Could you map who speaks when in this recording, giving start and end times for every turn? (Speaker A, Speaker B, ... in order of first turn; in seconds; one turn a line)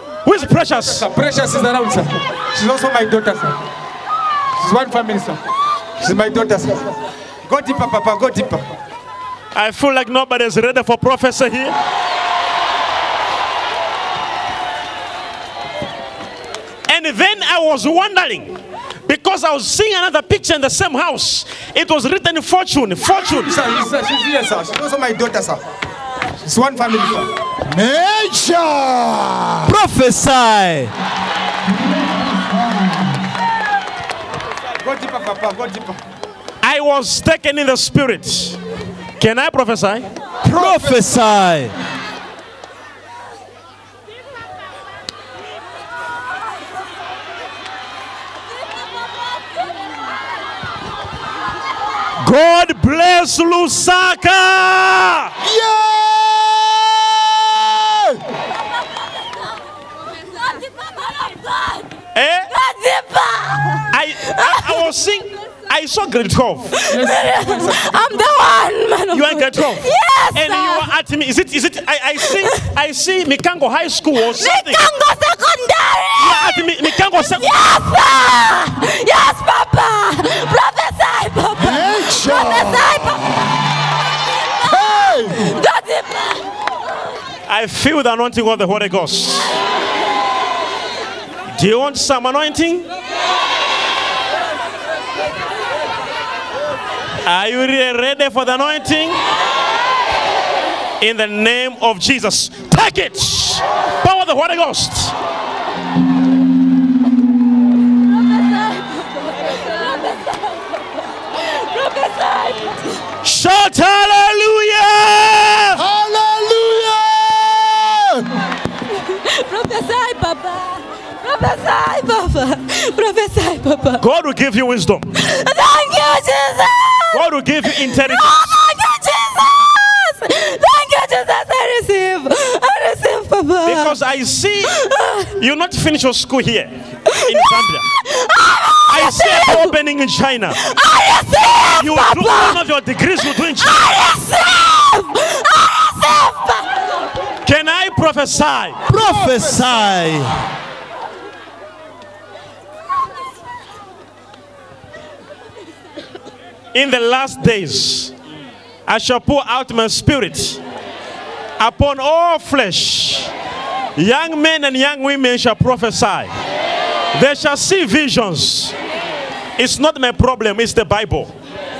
Speaker A: 0.2-1.1
Speaker B: 0.8-3.6
Speaker B: 4.6-5.4
Speaker B: 6.0-6.9
Speaker B: 7.4-8.7
Speaker A: 9.5-11.7
Speaker A: 16.9-23.5
Speaker B: 23.3-25.6
Speaker B: 26.4-27.3
Speaker C: 27.6-29.7
Speaker D: 29.6-30.9
Speaker B: 34.8-36.0
Speaker A: 36.6-38.6
Speaker A: 39.2-40.1
Speaker D: 40.4-41.7
Speaker B: 40.5-41.0
Speaker A: 52.2-55.3
Speaker C: 55.4-58.2
Speaker E: 60.2-61.9
Speaker A: 62.1-62.5
Speaker E: 62.5-64.8
Speaker A: 63.9-66.8
Speaker E: 66.8-70.9
Speaker B: 66.9-68.1
Speaker A: 69.1-74.9
Speaker E: 72.3-72.7
Speaker E: 74.3-83.2
Speaker A: 76.2-77.8
Speaker C: 81.5-83.6
Speaker C: 84.7-85.5
Speaker E: 85.4-86.5
Speaker A: 87.5-89.5
Speaker A: 91.5-92.9
Speaker A: 97.2-99.2
Speaker A: 101.0-105.1
Speaker E: 109.5-110.6
Speaker E: 111.4-112.6
Speaker A: 113.2-115.8
Speaker C: 115.8-118.3
Speaker E: 118.9-124.0
Speaker A: 124.0-125.1
Speaker E: 125.2-134.0
Speaker A: 127.1-128.6
Speaker A: 133.6-137.9
Speaker E: 134.7-135.2
Speaker E: 137.3-139.7
Speaker A: 138.8-140.6
Speaker E: 140.5-142.6
Speaker A: 141.7-144.0
Speaker E: 143.7-146.7
Speaker A: 147.4-148.8
Speaker D: 148.8-150.4
Speaker C: 148.9-149.9
Speaker A: 156.7-158.1
Speaker A: 158.8-160.6
Speaker A: 161.6-163.3
Speaker A: 163.9-166.3
Speaker A: 167.1-168.8
Speaker A: 169.6-171.3